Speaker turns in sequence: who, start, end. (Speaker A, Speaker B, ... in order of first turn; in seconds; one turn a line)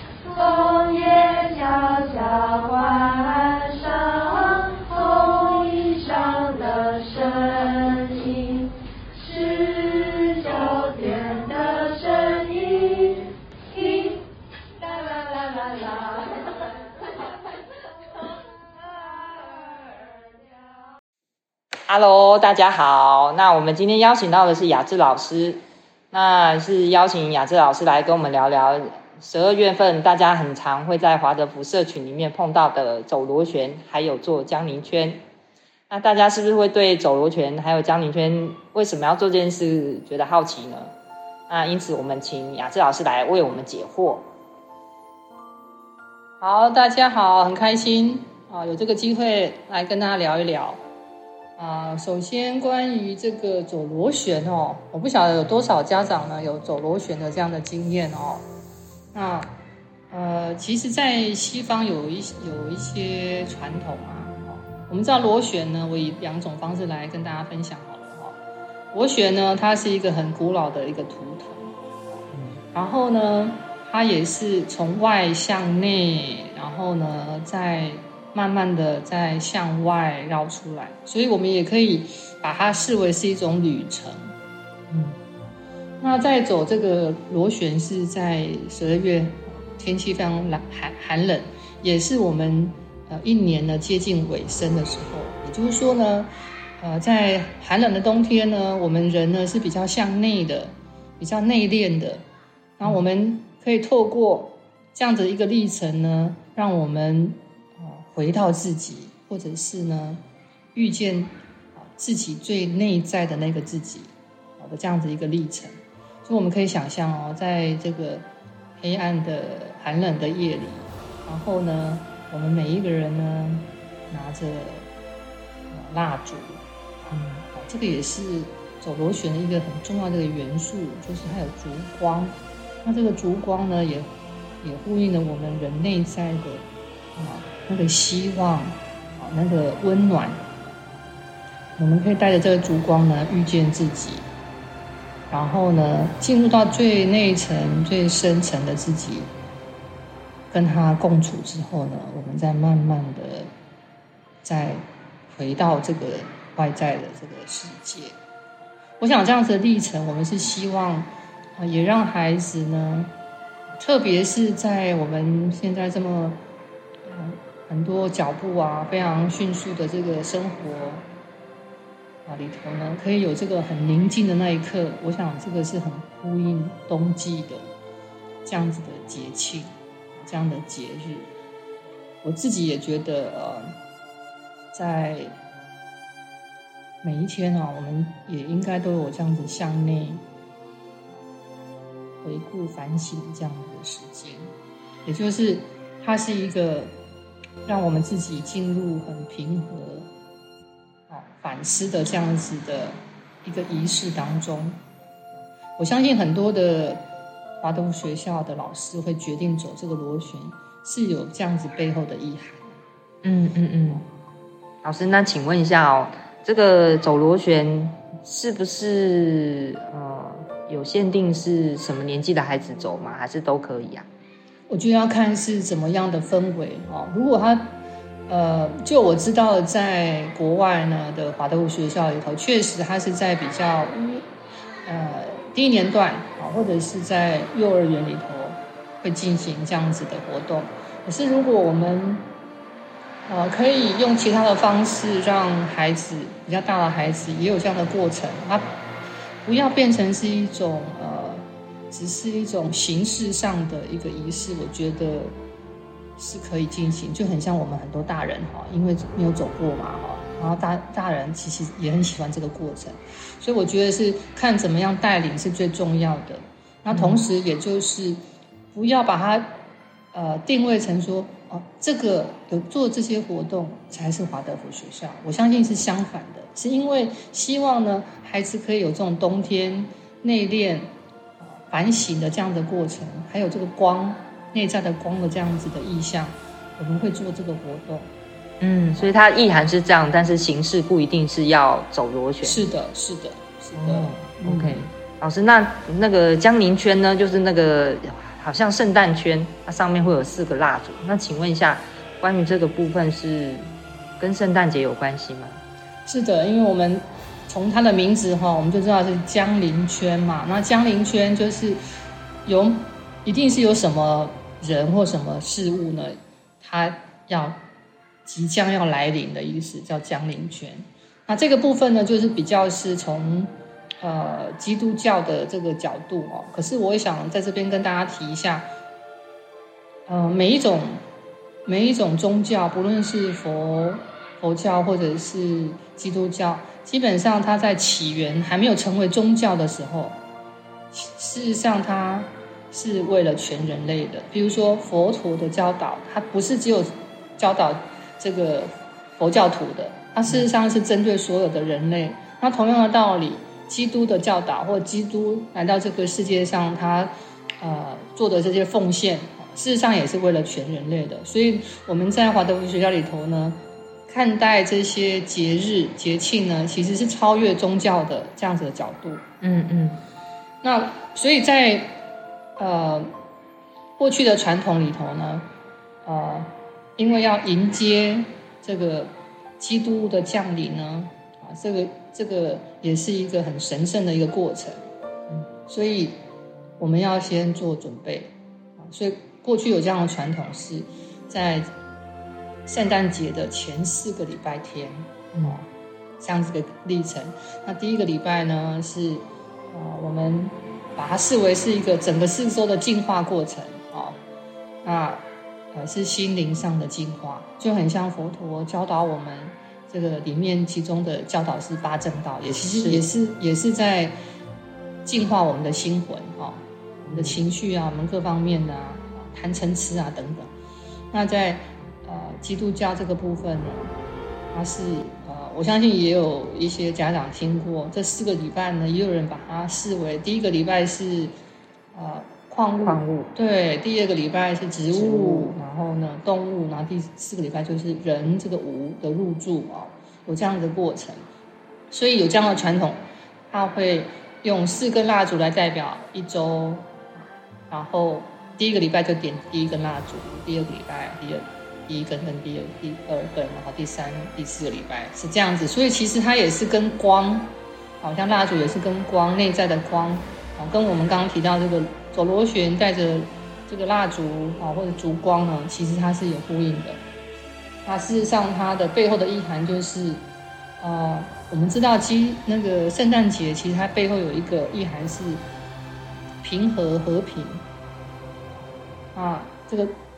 Speaker A: 0.2-14.2
Speaker A: 14.8-16.5
Speaker B: 21.9-25.6
Speaker B: 26.1-35.2
Speaker B: 35.9-40.9
Speaker B: 41.5-44.2
Speaker C: 46.4-50.8
Speaker C: 51.6-58.4
Speaker C: 59.1-59.5
Speaker C: 60.1-68.3
Speaker C: 68.9-71.7
Speaker B: 72.3-72.6
Speaker C: 72.7-84.3
Speaker B: 84.9-85.2
Speaker C: 86.0-96.3
Speaker C: 96.8-102.2
Speaker C: 102.8-110.2
Speaker C: 110.7-115.7
Speaker C: 116.2-118.2
Speaker C: 118.8-124.9
Speaker C: 125.7-126.6
Speaker B: 127.1-127.4
Speaker C: 127.5-134.1
Speaker C: 134.6-136.6
Speaker C: 137.2-140.4
Speaker C: 141.8-144.2
Speaker C: 145.3-149.3
Speaker C: 150.5-153.5
Speaker C: 154.4-158.2
Speaker C: 159.0-163.1
Speaker C: 163.8-166.4
Speaker C: 167.1-171.0
Speaker C: 172.2-177.7
Speaker C: 178.4-181.3
Speaker C: 182.2-183.7
Speaker C: 184.7-185.3
Speaker C: 187.0-190.2
Speaker C: 192.2-194.5
Speaker C: 195.0-196.9
Speaker C: 197.6-200.1
Speaker C: 201.1-204.8
Speaker C: 205.8-207.0
Speaker C: 207.6-212.8
Speaker B: 213.2-214.0
Speaker B: 214.8-224.1
Speaker C: 224.7-227.7
Speaker C: 228.3-234.2
Speaker C: 234.8-242.2
Speaker C: 243.3-248.7
Speaker C: 249.4-255.3
Speaker C: 256.2-268.2
Speaker B: 266.9-267.2
Speaker C: 268.7-269.4
Speaker C: 270.1-280.9
Speaker C: 281.4-288.1
Speaker B: 288.6-292.6
Speaker C: 292.4-294.9
Speaker B: 293.7-305.6
Speaker C: 306.1-311.8
Speaker C: 312.4-317.6
Speaker C: 318.2-328.7
Speaker C: 330.1-331.0
Speaker C: 331.6-340.1
Speaker C: 340.9-369.2
Speaker B: 369.4-370.0
Speaker C: 370.6-371.9
Speaker C: 372.6-373.1
Speaker C: 374.0-375.4
Speaker C: 376.0-384.8
Speaker C: 385.7-386.1
Speaker C: 386.8-391.7
Speaker C: 392.6-395.7
Speaker B: 395.3-395.6
Speaker C: 396.2-404.2
Speaker C: 404.8-414.1
Speaker B: 412.6-413.0
Speaker C: 415.0-420.5
Speaker B: 417.1-417.4
Speaker C: 421.1-423.9
Speaker C: 424.5-431.3
Speaker C: 431.9-441.2
Speaker B: 432.8-433.3
Speaker B: 434.9-435.5
Speaker C: 441.9-443.0
Speaker C: 443.5-447.0
Speaker C: 447.7-457.5
Speaker C: 458.0-467.0
Speaker C: 467.8-470.2
Speaker C: 470.8-475.4
Speaker C: 476.4-477.6
Speaker C: 479.1-479.9